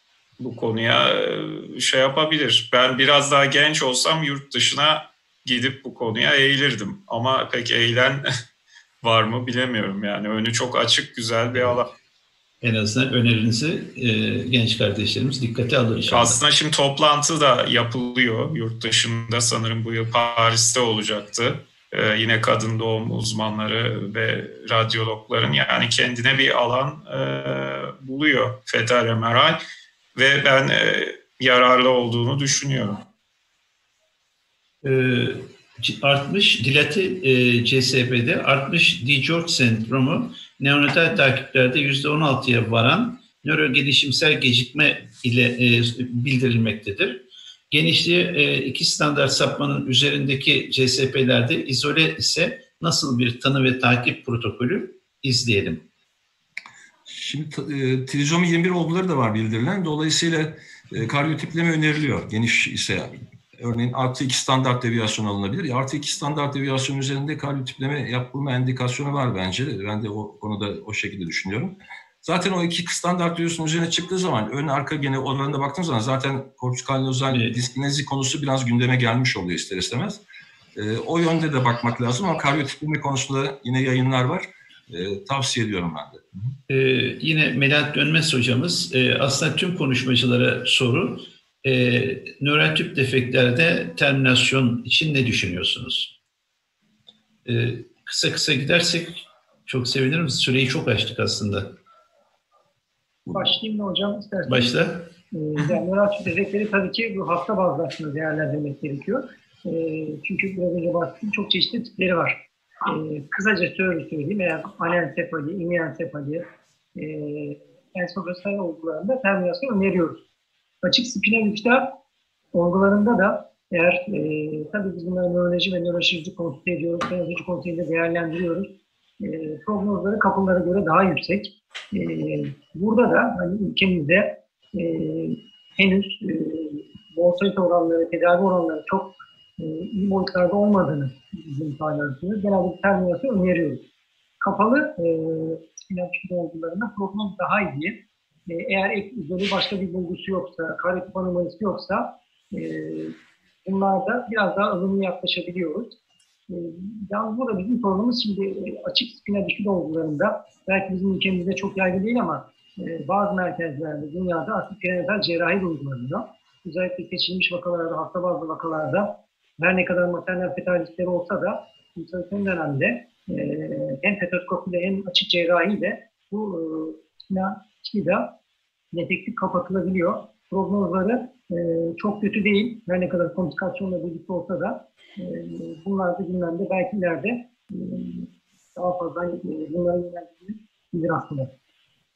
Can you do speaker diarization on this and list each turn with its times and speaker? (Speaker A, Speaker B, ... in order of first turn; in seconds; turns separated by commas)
Speaker A: 0.4-8.2, Speaker A: 9.0-11.9, Speaker B: 12.6-16.4, Speaker A: 16.1-29.6, Speaker A: 30.1-33.0, Speaker B: 34.8-55.8, Speaker C: 57.1-71.7, Speaker C: 72.2-80.2, Speaker B: 77.3-77.6, Speaker C: 80.8-86.3, Speaker B: 86.7-96.1, Speaker B: 97.5-101.8, Speaker C: 103.2-103.5, Speaker D: 103.3-104.8, Speaker B: 104.5-105.1, Speaker D: 105.3-116.4, Speaker D: 117.0-120.2, Speaker D: 120.8-121.9, Speaker D: 122.5-128.7, Speaker D: 129.2-143.8, Speaker D: 144.4-148.0, Speaker D: 148.5-155.9, Speaker D: 156.5-178.3, Speaker D: 178.9-191.5